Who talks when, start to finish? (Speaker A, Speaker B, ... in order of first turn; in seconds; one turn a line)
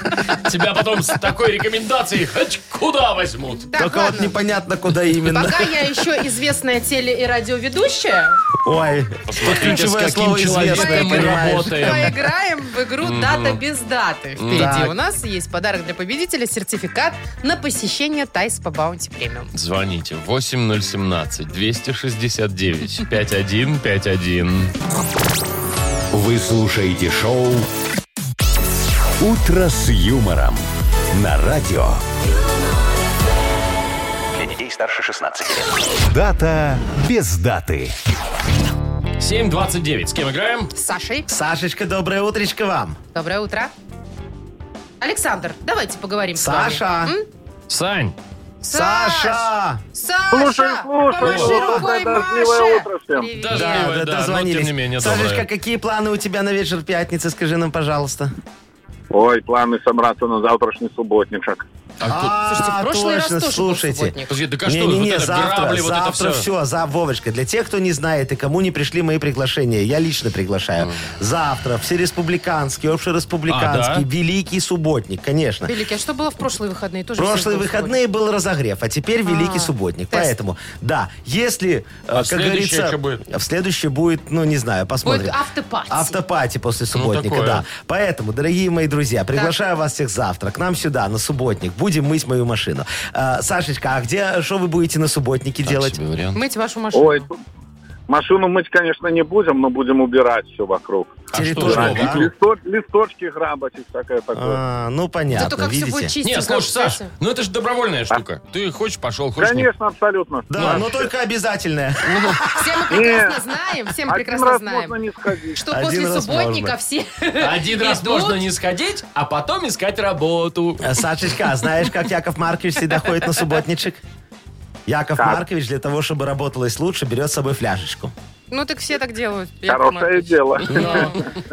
Speaker A: 0.4-3.7
Speaker B: 3.7-4.3
Speaker C: 3.7-6.0
Speaker B: 5.3-8.4
Speaker C: 8.6-12.1
Speaker A: 9.3-12.3
Speaker B: 10.7-19.5
Speaker A: 13.0-13.6
Speaker A: 14.4-14.7
Speaker C: 14.5-14.9
Speaker A: 19.5-24.7
Speaker D: 26.1-27.7
Speaker D: 29.2-32.0
Speaker D: 34.3-37.9
Speaker A: 39.2-40.7
Speaker B: 40.8-41.3
Speaker C: 41.3-43.0
Speaker B: 43.1-43.7
Speaker B: 45.0-47.3
Speaker C: 46.4-47.1
Speaker A: 47.7-48.1
Speaker B: 48.6-53.9
Speaker C: 48.7-49.8
Speaker E: 50.3-53.3
Speaker A: 51.2-51.6
Speaker C: 51.5-51.9
Speaker A: 53.4-55.5
Speaker C: 53.5-58.3
Speaker E: 59.1-61.6
Speaker A: 62.0-62.3
Speaker C: 62.1-75.7
Speaker B: 62.5-64.4
Speaker A: 64.3-66.5
Speaker A: 70.8-71.1
Speaker A: 73.5-74.1
Speaker B: 75.7-78.0
Speaker C: 77.2-96.0
Speaker B: 79.3-80.3
Speaker A: 82.2-83.2
Speaker B: 85.0-86.2
Speaker A: 86.9-87.6
Speaker A: 95.6-96.4
Speaker B: 96.3-97.3
Speaker E: 96.9-97.4
Speaker E: 98.1-104.6
Speaker C: 101.3-102.3
Speaker A: 101.3-102.3
Speaker C: 104.3-106.1
Speaker B: 105.3-107.1
Speaker A: 106.2-109.7
Speaker E: 109.4-111.0
Speaker C: 110.5-112.8
Speaker A: 110.6-110.8
Speaker A: 112.1-112.4
Speaker B: 112.5-115.0
Speaker E: 112.9-113.4
Speaker E: 114.1-115.6
Speaker B: 115.5-118.4
Speaker C: 115.7-116.8
Speaker A: 117.4-121.0
Speaker C: 120.8-124.0
Speaker C: 124.9-128.1
Speaker E: 125.2-125.4
Speaker B: 128.5-131.2
Speaker E: 129.7-131.3